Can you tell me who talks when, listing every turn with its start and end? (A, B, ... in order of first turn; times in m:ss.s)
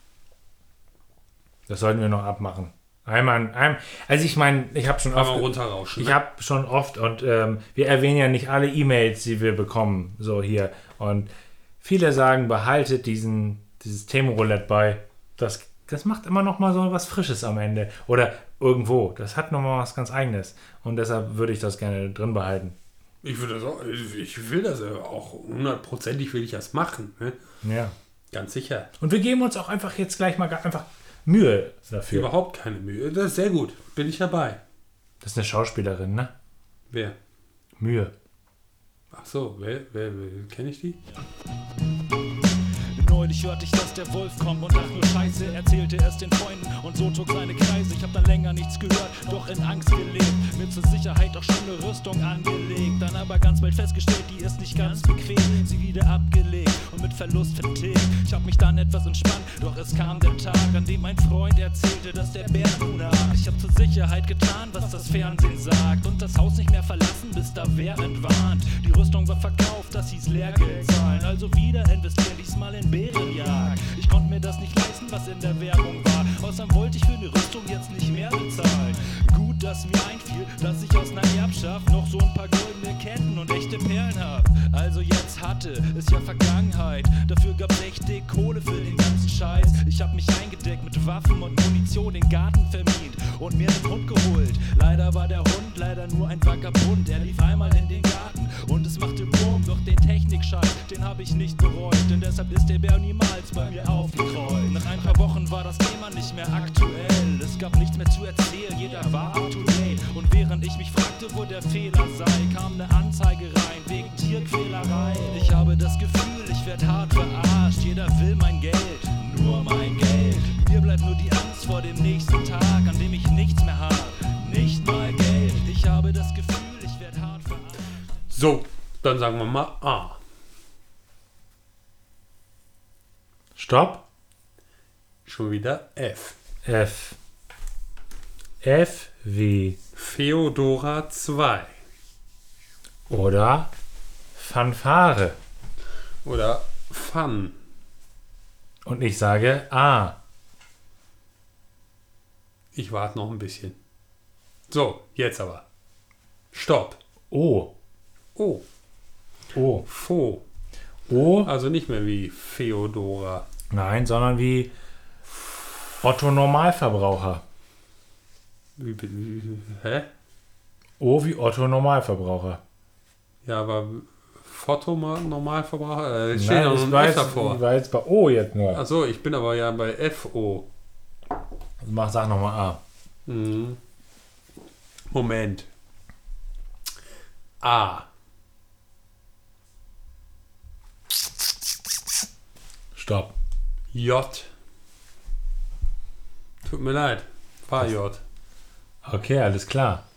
0:01.7-0:11.3 A
0:05.1-0:06.2 B
0:11.8-0:22.8 A
0:23.2-0:27.4 B
0:27.6-0:27.9 A
0:28.3-0:28.9 B
0:29.0-0:32.3 A
0:32.1-0:34.6 B
0:35.2-0:36.3 A
0:36.9-0:37.2 B
0:37.8-0:38.1 A
0:39.1-0:41.0 B
0:42.9-2:07.9 C
2:08.3-2:10.2 B
2:13.6-2:14.0 A
2:15.2-2:16.4 B
2:16.6-2:17.2 A
2:18.6-2:19.8 A
2:19.9-2:21.7 B
2:23.1-2:23.7 A
2:24.3-2:25.4 A
2:26.2-2:27.5 B
2:28.8-2:30.2 A
2:32.7-2:33.8 B
2:34.7-2:35.6 B
2:36.5-2:37.0 B
2:37.3-2:37.7 A
2:38.4-2:38.6 B
2:39.5-2:39.8 A
2:39.8-2:40.4 B
2:41.1-2:41.5 A
2:41.4-2:43.4 B
2:43.7-2:44.7 A
2:46.0-2:47.4 A
2:48.8-2:50.1 B
2:51.0-2:52.6 A
2:53.4-2:57.6 B
2:56.3-2:58.8 A
2:58.7-3:00.7 B
3:01.8-3:02.8 A
3:03.3-3:03.8 B
3:05.1-3:05.7 B
3:07.6-3:08.1 B
3:12.9-3:13.3 A
3:13.9-3:14.5 B
3:16.6-3:18.2 B
3:19.0-3:20.0 A